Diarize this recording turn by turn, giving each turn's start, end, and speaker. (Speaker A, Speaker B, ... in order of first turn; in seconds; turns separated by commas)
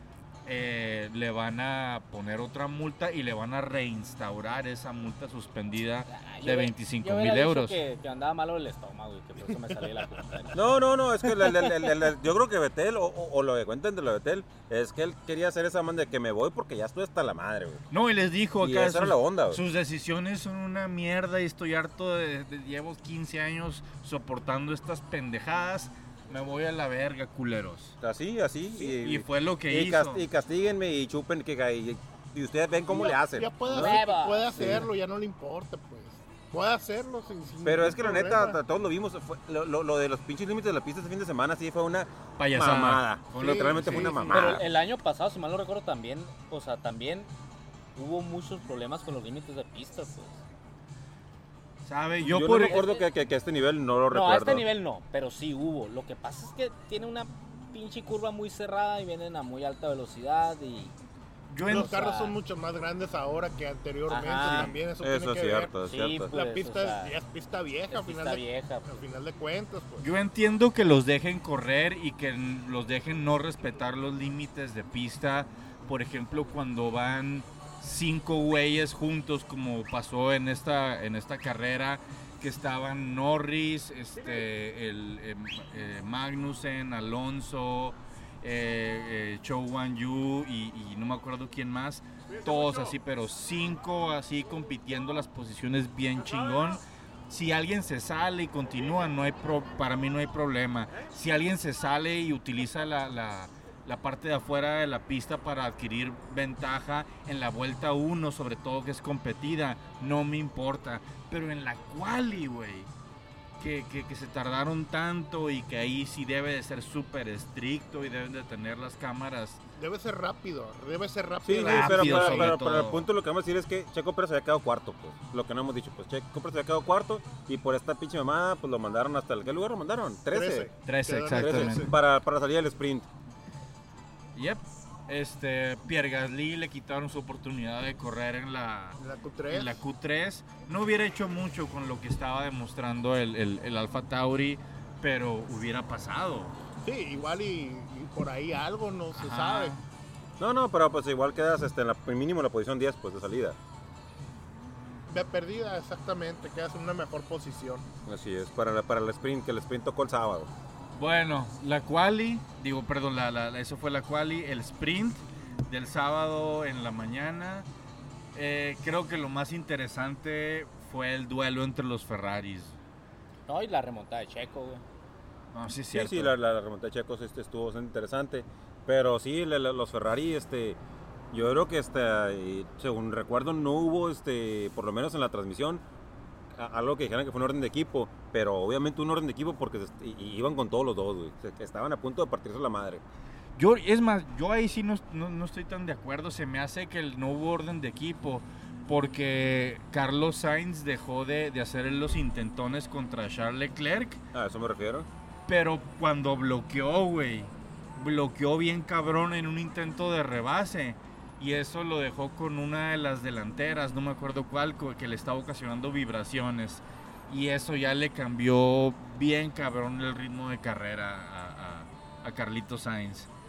Speaker A: 0.4-7.8, Speaker B: 6.1-10.7, Speaker C: 9.5-9.8, Speaker D: 10.5-17.8, Speaker A: 17.9-27.9, Speaker D: 18.6-19.6, Speaker D: 28.0-34.0, Speaker A: 28.8-30.2, Speaker C: 32.9-38.6, Speaker B: 33.6-34.8, Speaker D: 34.5-34.9, Speaker D: 37.6-44.6, Speaker A: 42.4-44.5, Speaker C: 43.4-44.5, Speaker B: 44.3-47.3, Speaker B: 48.0-50.4, Speaker A: 51.8-52.8, Speaker D: 52.2-54.6, Speaker B: 52.6-53.0, Speaker B: 54.1-60.9, Speaker A: 61.5-62.0, Speaker B: 61.7-62.4, Speaker C: 61.7-65.7, Speaker B: 64.1-64.8, Speaker A: 64.4-64.7, Speaker D: 65.0-66.3, Speaker B: 65.8-67.1, Speaker C: 66.3-70.1, Speaker B: 67.9-69.0, Speaker A: 70.0-112.9, Speaker A: 113.6-119.6, Speaker C: 119.8-122.6, Speaker D: 121.4-130.7, Speaker A: 121.6-123.0, Speaker C: 130.3-131.9, Speaker A: 130.8-131.9, Speaker D: 131.3-133.1, Speaker A: 134.3-139.0, Speaker C: 139.0-139.8, Speaker A: 139.5-146.5, Speaker C: 146.8-149.7, Speaker A: 149.1-149.8, Speaker D: 150.4-153.6, Speaker C: 155.1-157.8, Speaker D: 158.0-160.5, Speaker A: 160.9-167.7, Speaker A: 168.3-172.8, Speaker B: 173.5-174.8, Speaker A: 175.5-176.3, Speaker D: 175.9-180.8, Speaker D: 181.3-185.8, Speaker D: 186.5-193.0, Speaker A: 193.6-204.2, Speaker D: 204.3-205.1, Speaker A: 205.5-223.3